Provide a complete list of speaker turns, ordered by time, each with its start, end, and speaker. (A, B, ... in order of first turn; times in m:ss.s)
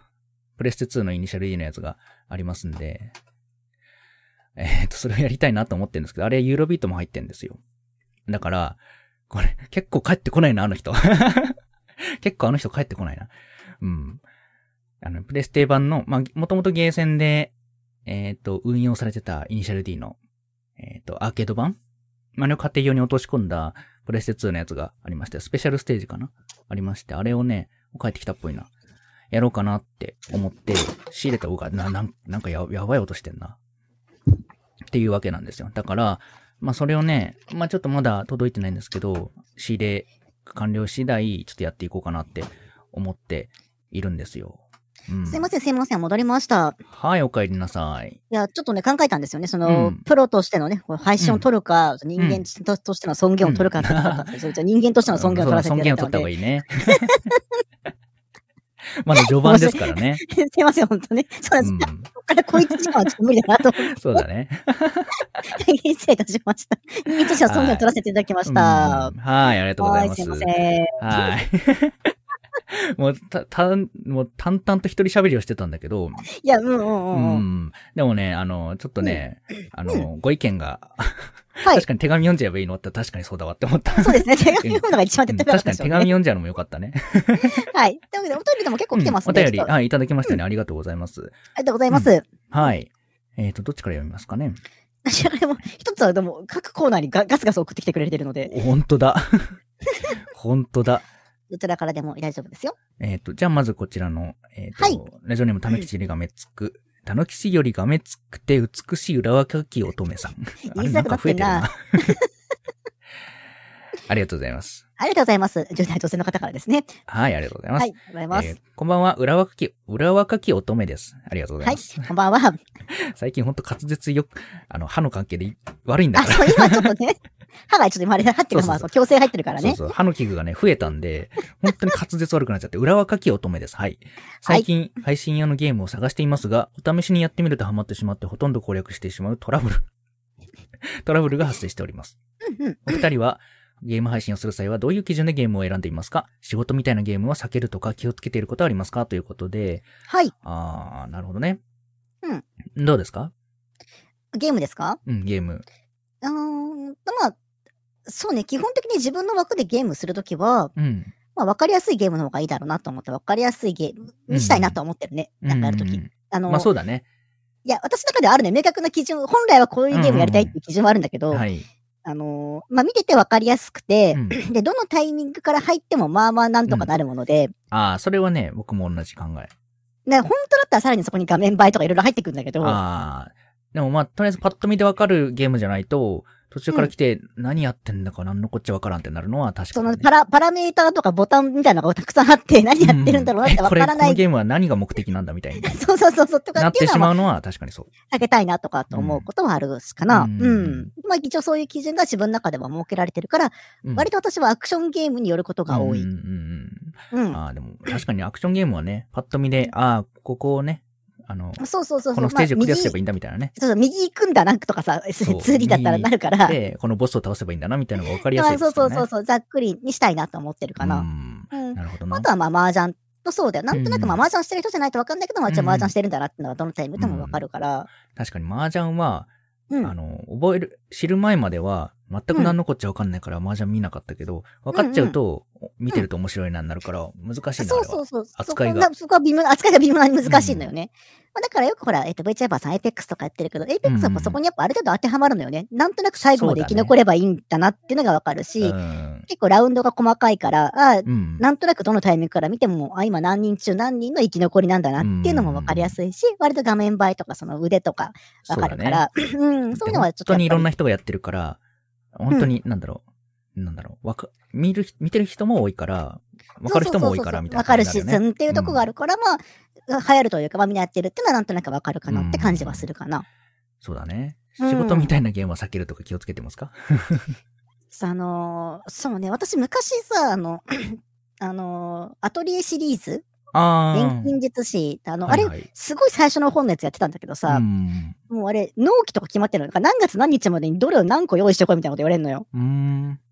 0:00.6-0:03.2 A
0:04.6-0:07.6 A
0:08.3-0:08.8 A
0:09.3-0:14.2 A
0:15.0-0:17.5 A
0:18.1-0:20.2 A
0:20.8-0:21.8 A
0:22.4-0:28.7 A
0:29.3-0:33.6 A
0:34.9-0:45.5 A
0:45.3-0:46.8 B
0:46.9-0:48.2 A
0:48.3-0:56.3 B
0:49.6-0:50.0 A
0:52.2-0:52.4 A
0:53.4-0:54.3 A
0:55.1-0:57.2 A
0:56.8-0:57.4 B
0:59.0-1:00.2 A
0:59.2-1:04.2 B
1:01.6-1:02.9 A
1:03.9-1:05.2 A
1:05.5-1:09.2 B
1:07.4-1:07.9 A
1:08.5-1:12.1 A
1:09.8-1:11.3 B
1:12.7-1:16.3 A
1:16.3-1:17.4 B
1:17.1-1:27.7 A
1:23.9-1:26.1 B
1:27.4-1:29.7 B
1:28.9-1:31.4 A
1:31.6-1:32.3 B
1:31.9-1:34.6 A
1:35.0-1:38.6 B
1:38.5-1:39.6 A
1:40.3-1:41.1 A
1:41.5-1:42.8 B
1:43.0-1:52.1 A
1:50.7-1:52.2 B
1:54.1-1:54.8 A
1:55.0-1:56.9 B
1:57.1-2:02.1 A
1:57.8-1:58.6 B
2:01.6-2:02.6 B
2:02.9-2:06.9 A
2:06.2-2:07.2 B
2:07.7-2:09.8 B
2:08.5-2:08.9 A
2:09.6-2:19.9 A
2:20.8-2:22.2 A
2:22.4-2:23.0 B
2:22.9-2:29.8 A
2:30.1-2:30.3 B
2:30.4-2:31.6 A
2:32.8-2:33.3 A
2:34.3-2:35.0 B
2:35.1-2:35.6 A
2:36.2-2:37.4 B
2:38.1-2:40.7 B
2:40.8-2:41.1 A
2:41.4-2:46.7 B
2:44.3-2:44.8 A
2:45.4-2:47.0 A
2:47.6-2:51.4 B
2:49.9-2:50.6 A
2:51.3-2:51.7 A
2:52.0-2:57.5 B
2:54.1-2:54.4 A
2:57.7-2:59.5 A
3:00.1-3:02.8 B
3:02.6-3:10.1 A
3:09.7-3:14.2 B
3:12.8-3:15.8 A
3:15.6-3:17.1 B
3:16.6-3:17.9 A
3:18.1-3:26.1 B
3:18.9-3:19.3 A
3:20.1-3:20.9 A
3:25.7-3:33.5 A
3:27.1-3:27.4 B
3:31.6-3:33.0 B
3:33.6-3:36.6 B
3:35.2-3:39.1 A
3:38.3-3:47.9 B
3:40.8-3:42.3 A
3:43.7-3:44.2 A
3:45.5-3:45.9 A
3:47.0-3:47.4 A
3:48.1-3:49.3 A
3:49.8-3:58.9 A
3:54.7-3:55.2 B
3:57.6-4:08.8 B
4:00.2-4:00.7 A
4:03.8-4:04.4 A
4:06.2-4:06.9 A
4:08.6-4:09.3 A
4:09.3-4:20.7 B
4:11.0-4:11.4 A
4:15.0-4:16.0 A
4:18.5-4:19.1 A
4:19.7-4:21.6 A
4:22.1-4:23.0 A
4:23.6-4:28.8 A
4:26.6-4:33.2 B
4:32.1-4:32.9 A
4:33.8-4:37.4 A
4:34.6-4:35.1 B
4:37.9-4:43.3 B
4:43.5-4:44.4 A
4:43.9-4:47.6 B
4:45.3-4:45.7 A
4:47.5-4:48.2 A
4:48.3-4:52.4 B
4:52.5-4:53.2 A